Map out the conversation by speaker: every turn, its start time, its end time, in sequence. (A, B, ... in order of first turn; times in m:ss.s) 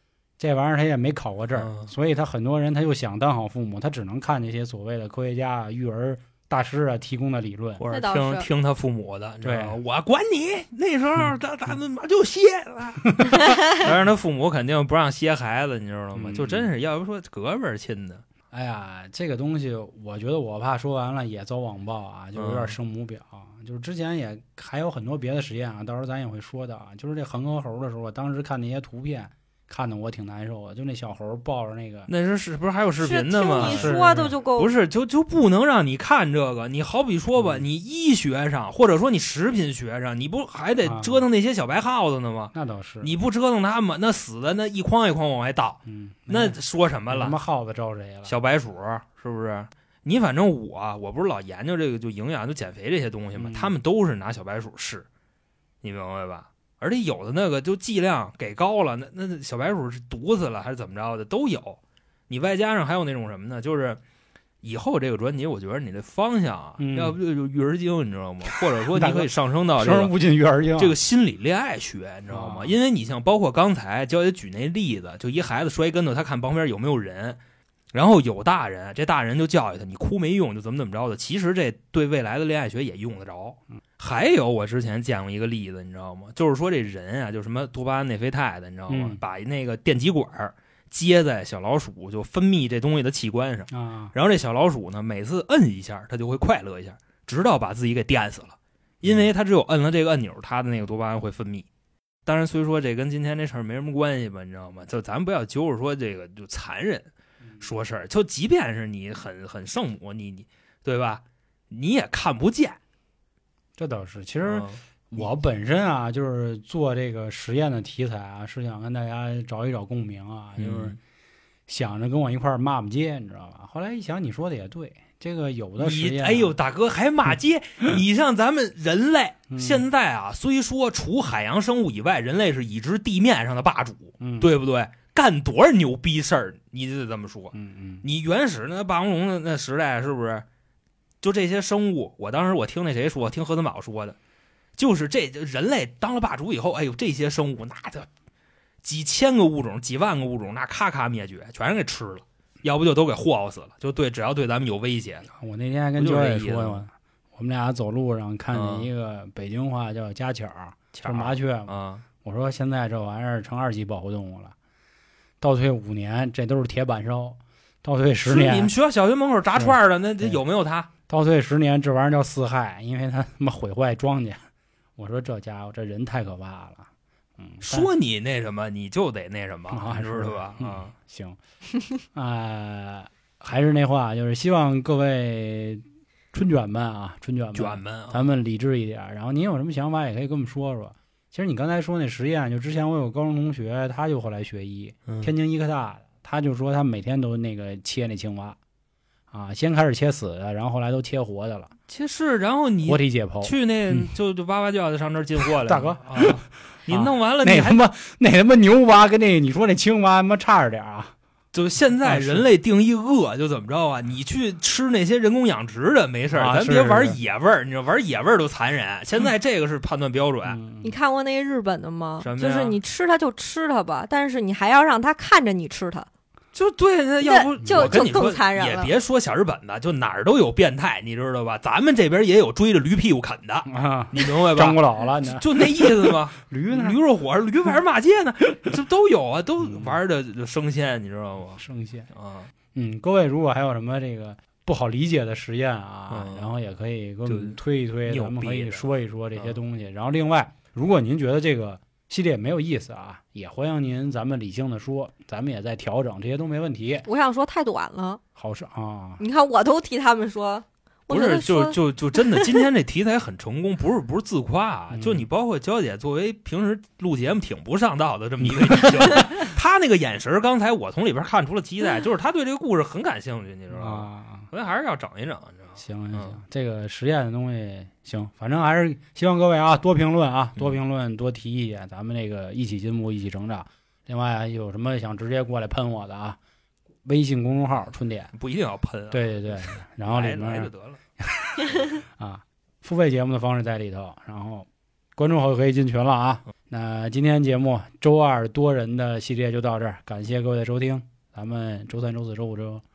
0:00.4-0:07.8 A
0:01.5-0:01.9 B
0:07.8-0:18.2 B
0:07.9-0:08.5 C
0:09.4-0:09.8 A
0:16.2-0:16.7 A
0:18.5-0:32.1 A
0:22.4-0:22.8 B
0:32.1-0:47.4 B
0:33.0-0:34.7 C
0:33.6-0:34.4 A
0:37.4-0:37.6 A
0:40.8-0:41.2 A
0:42.5-0:43.1 A
0:45.9-0:48.4 A
0:48.3-0:55.1 B
0:53.4-0:53.8 A
0:55.8-1:04.0 B
1:04.6-1:10.2 B
1:06.8-1:07.2 A
1:08.5-1:11.0 A
1:10.8-1:17.4 B
1:12.3-1:12.8 A
1:17.9-1:41.7 B
1:28.9-1:29.2 A
1:33.7-1:34.1 A
1:39.0-1:39.3 A
1:42.3-1:47.1 B
1:47.6-1:52.8 B
1:53.8-2:01.0 A
1:54.4-1:54.8 B
2:00.6-2:01.0 B
2:01.7-2:06.6 A
2:05.8-2:20.4 B
2:09.5-2:09.8 A
2:14.2-2:14.5 A
2:17.5-2:18.0 A
2:21.2-2:24.2 B
2:24.8-2:28.1 B
2:28.8-2:35.3 B
2:35.4-2:44.5 A
2:36.0-2:36.8 B
2:38.5-2:38.9 B
2:41.0-2:42.0 B
2:45.4-2:48.7 A
2:48.3-2:50.9 B
2:49.5-2:50.4 A
2:51.1-2:54.4 A
2:55.0-2:57.9 A
2:57.6-3:00.9 B
2:59.7-3:01.4 A
3:02.1-3:18.6 A
3:07.6-3:08.2 B
3:15.1-3:15.3 B
3:19.3-3:21.7 A
3:21.9-3:27.8 B
3:22.8-3:24.1 A
3:25.4-3:31.1 A
3:31.5-3:40.6 B
3:32.0-3:32.5 A
3:36.3-3:37.2 A
3:40.5-3:40.9 A
3:40.8-3:46.1 C
3:42.2-3:42.8 B
3:46.5-4:01.6 B
3:47.2-3:48.9 C
3:47.6-3:48.0 A
3:53.7-3:57.0 A
3:59.6-4:00.0 A
4:01.6-4:02.1 A
4:02.1-4:02.5 B
4:02.7-4:17.1 A
4:06.1-4:06.5 B
4:07.3-4:09.6 B
4:17.1-4:18.2 C
4:18.4-4:19.2 A
4:19.2-4:22.5 C
4:21.1-4:36.4 B
4:24.9-4:25.3 A
4:28.4-4:29.5 A
4:33.7-4:34.5 A
4:35.8-4:46.4 A
4:47.0-4:48.3 A
4:48.3-4:51.0 B
4:49.1-5:02.8 A